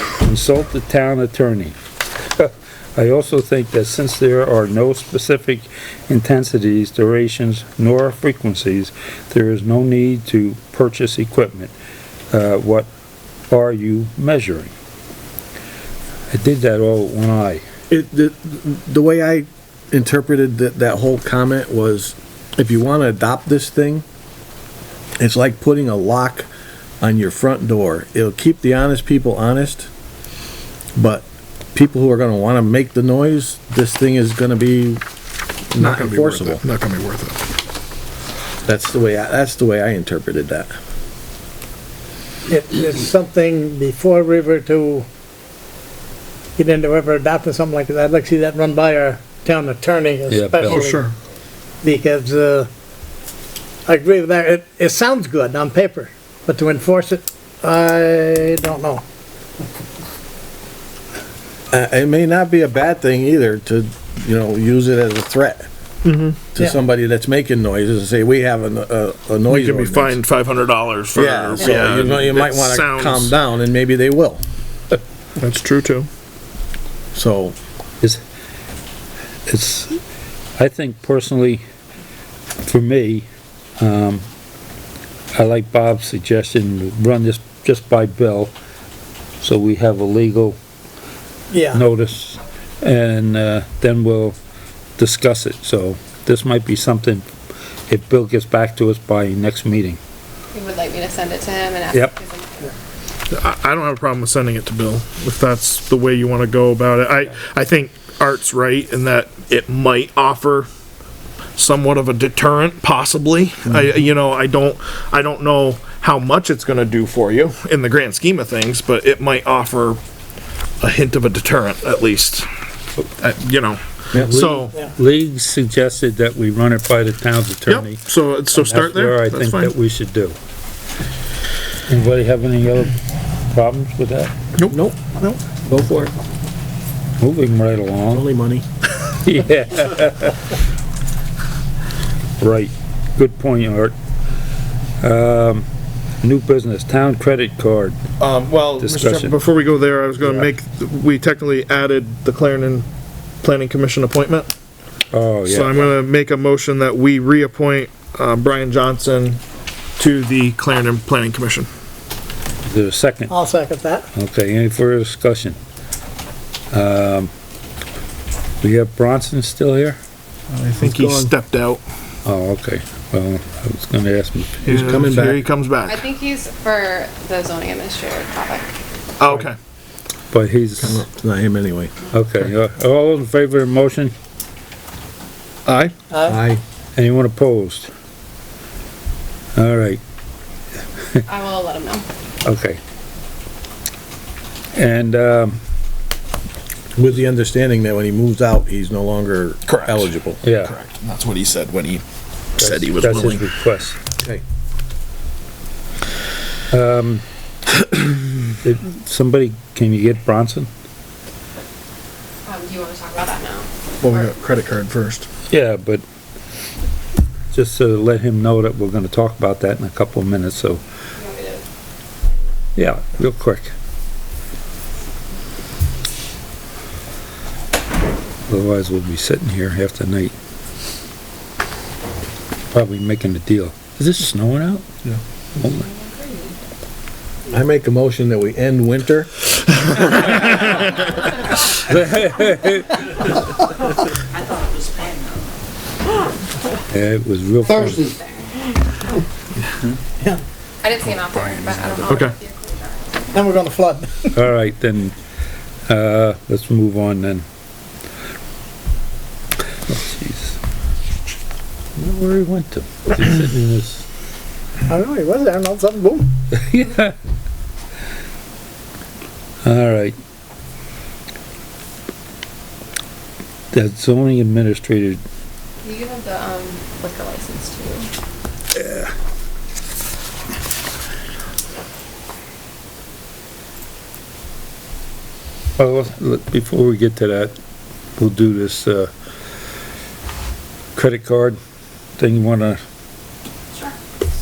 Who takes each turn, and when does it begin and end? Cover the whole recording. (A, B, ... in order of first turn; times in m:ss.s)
0:00.2-0:01.8 A
0:02.4-0:11.7 A
0:12.3-0:12.9 A
0:13.5-0:14.7 A
0:16.3-0:17.6 A
0:17.9-0:24.0 B
0:25.2-0:26.5 B
0:27.0-0:29.9 B
0:31.0-0:35.0 B
0:35.7-0:36.6 B
0:35.8-0:37.4 C
0:38.6-0:40.7 B
0:42.5-0:45.1 D
0:46.6-0:51.1 D
0:50.3-0:50.8 A
0:50.6-0:51.1 C
0:51.8-0:52.7 D
0:53.9-0:59.0 D
1:01.7-1:05.7 B
1:06.0-1:06.5 C
1:06.6-1:10.2 B
1:09.5-1:13.3 C
1:11.2-1:14.4 B
1:15.4-1:16.1 C
1:17.1-1:17.6 B
1:19.5-1:20.0 A
1:20.6-1:21.6 A
1:22.6-1:23.3 A
1:23.8-1:24.2 A
1:25.4-1:28.5 A
1:29.4-1:30.6 A
1:31.5-1:31.8 D
1:31.7-1:34.4 A
1:35.0-1:37.3 A
1:37.9-1:40.0 A
1:40.5-1:42.8 E
1:43.3-1:50.7 C
1:51.6-2:00.0 C
2:00.8-2:02.5 C
2:03.2-2:04.8 C
2:04.2-2:08.0 A
2:07.7-2:09.7 C
2:08.5-2:10.4 A
2:11.9-2:13.0 A
2:13.5-2:14.3 A
2:14.7-2:16.1 B
2:17.2-2:18.3 A
2:18.1-2:18.6 B
2:19.2-2:20.4 A
2:22.4-2:24.0 A
2:25.0-2:25.7 A
2:26.2-2:28.0 A
2:28.2-2:32.9 C
2:28.8-2:29.4 A
2:33.4-2:34.5 C
2:35.1-2:35.8 A
2:35.4-2:39.4 C
2:40.0-2:41.7 C
2:42.7-2:43.4 A
2:43.3-2:44.1 D
2:44.1-2:45.6 A
2:46.7-2:47.3 A
2:48.6-2:50.0 A
2:50.5-2:51.8 C
2:50.8-2:51.3 B
2:52.2-2:54.7 A
2:54.6-2:56.0 C
2:54.7-2:55.4 B
2:55.9-2:58.7 E
2:59.2-2:59.6 C
3:00.3-3:01.0 A
3:00.8-3:01.9 B
3:02.1-3:04.1 A
3:05.7-3:06.0 C
3:06.1-3:06.4 D
3:06.2-3:06.6 B
3:07.0-3:07.9 A
3:09.6-3:10.0 A
3:11.3-3:12.1 E
3:12.4-3:12.8 A
3:14.7-3:15.6 A
3:17.0-3:20.4 B
3:19.7-3:20.1 C
3:20.4-3:20.8 A
3:20.6-3:22.0 C
3:22.6-3:23.4 C
3:22.6-3:24.0 A
3:26.7-3:27.2 A
3:28.6-3:30.7 A
3:32.5-3:34.3 E
3:34.0-3:35.3 C
3:35.5-3:36.0 A
3:37.5-3:40.8 A
3:41.2-3:41.6 E
3:42.8-3:43.7 A
3:48.5-3:50.3 A
3:52.7-3:54.9 A
3:55.6-3:55.8 A
3:55.6-3:56.6 E
3:57.5-3:59.3 B
4:01.9-4:03.0 A
4:06.9-4:08.2 A
4:07.7-4:08.2 E
4:10.8-4:13.4 E
4:12.1-4:12.4 C
4:13.3-4:14.4 D
4:14.3-4:15.1 A
4:15.9-4:17.4 A
4:19.9-4:20.6 A
4:22.0-4:24.0 A
4:24.9-4:26.3 D
4:26.5-4:27.2 A
4:29.6-4:30.2 A
4:33.7-4:35.2 A
4:35.8-4:38.1 E
4:38.8-4:39.1 A
4:45.8-4:47.6 A
4:48.2-4:49.1 A
4:51.0-4:51.6 A
4:52.2-4:52.8 A